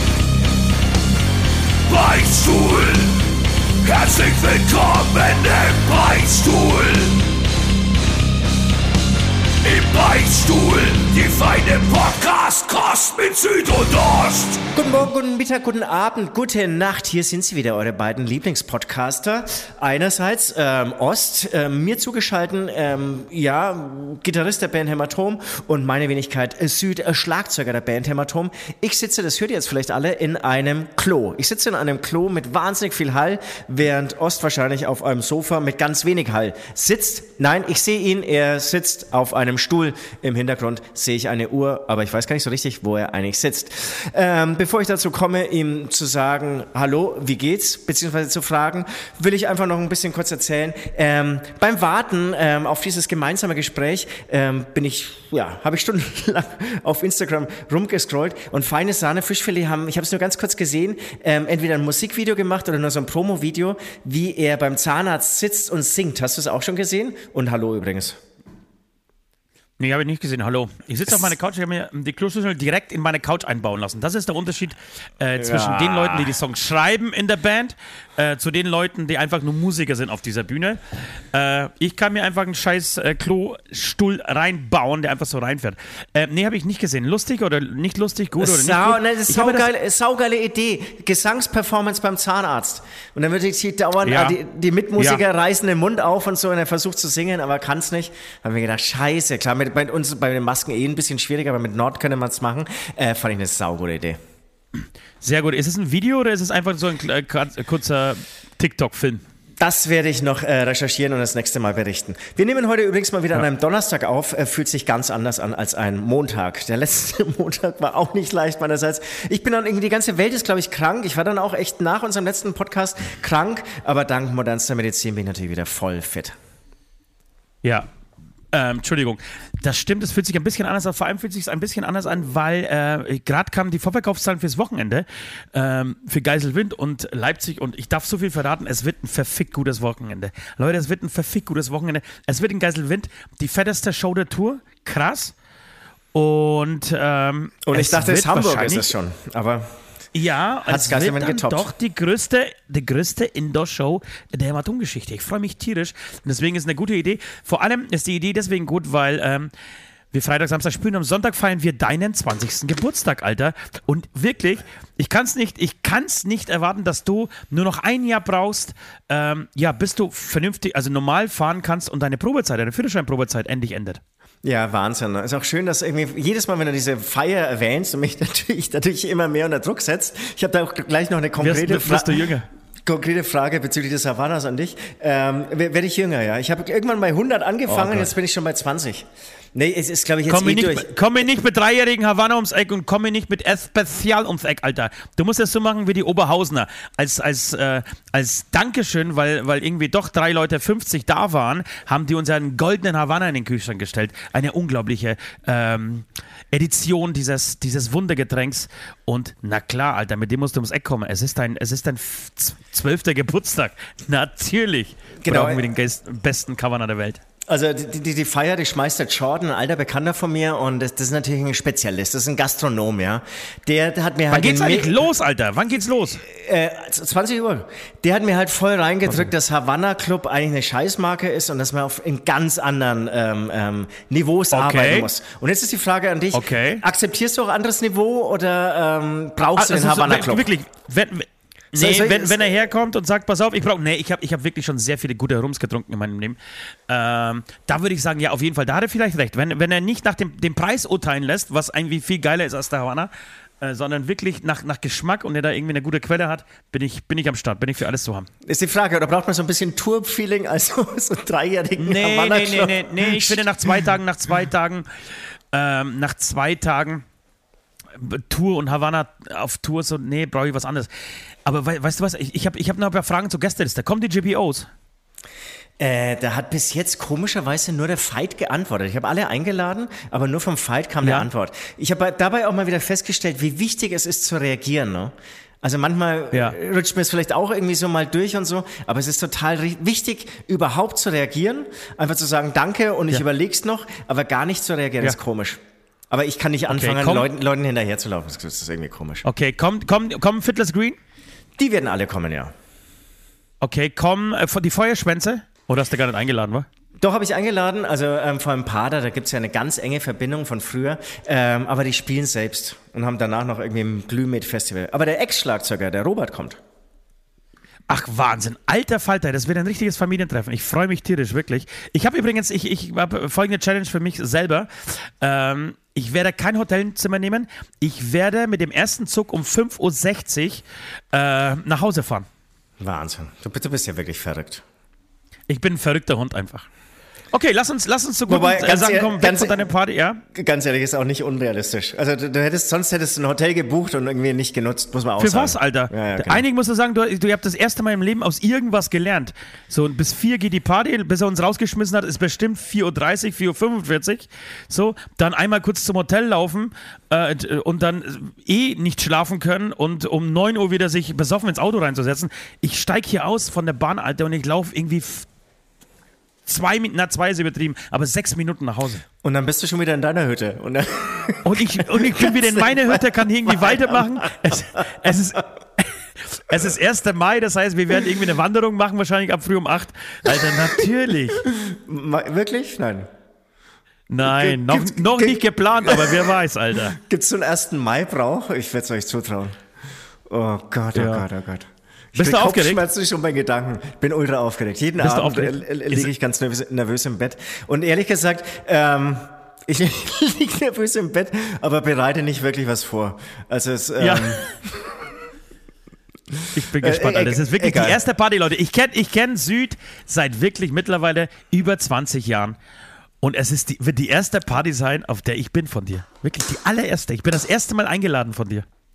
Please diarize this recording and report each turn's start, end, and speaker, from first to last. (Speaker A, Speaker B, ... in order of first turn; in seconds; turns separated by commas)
Speaker A: 1.9-3.2, Speaker A: 3.8-7.2, Speaker A: 9.6-14.6, Speaker B: 14.8-68.2, Speaker C: 69.8-89.7, Speaker B: 75.4-76.3, Speaker B: 88.4-104.2, Speaker C: 94.0-94.4, Speaker C: 105.2-109.2, Speaker B: 109.6-126.4, Speaker C: 127.6-127.9, Speaker C: 128.5-145.3, Speaker C: 146.1-148.9, Speaker B: 147.7-149.8, Speaker C: 150.1-159.5, Speaker B: 150.7-151.7, Speaker C: 160.1-174.0, Speaker B: 174.4-182.3, Speaker C: 181.4-182.5, Speaker B: 182.8-190.9, Speaker C: 187.7-188.1, Speaker C: 190.3-217.2, Speaker B: 215.2-215.6, Speaker B: 217.5-225.0, Speaker C: 224.3-226.2, Speaker B: 226.2-240.5, Speaker C: 234.5-235.1, Speaker C: 236.3-236.8, Speaker C: 239.6-246.4, Speaker B: 241.7-242.5, Speaker C: 246.9-253.1, Speaker C: 253.6-258.3, Speaker B: 258.4-263.8, Speaker C: 261.8-264.9, Speaker C: 265.5-267.0, Speaker C: 267.9-270.9, Speaker C: 271.4-274.7, Speaker B: 275.8-299.2, Speaker C: 281.0-281.3, Speaker C: 296.7-297.3, Speaker C: 299.2-301.0, Speaker B: 301.6-302.5, Speaker C: 303.6-306.7, Speaker B: 307.0-316.6, Speaker C: 317.9-332.3, Speaker B: 332.8-334.6, Speaker C: 335.5-336.7, Speaker C: 337.3-340.2, Speaker B: 338.3-339.7, Speaker B: 340.3-346.4, Speaker C: 345.2-365.3, Speaker C: 366.5-369.0, Speaker B: 369.2-374.4, Speaker C: 371.4-381.4, Speaker B: 381.5-383.1, Speaker C: 384.1-387.0, Speaker B: 384.2-386.3, Speaker B: 386.9-389.6, Speaker B: 390.3-404.5, Speaker C: 390.9-391.2, Speaker C: 392.2-392.8, Speaker C: 395.0-396.1, Speaker C: 404.0-404.4, Speaker B: 406.3-408.0, Speaker C: 406.5-412.6, Speaker C: 413.2-418.7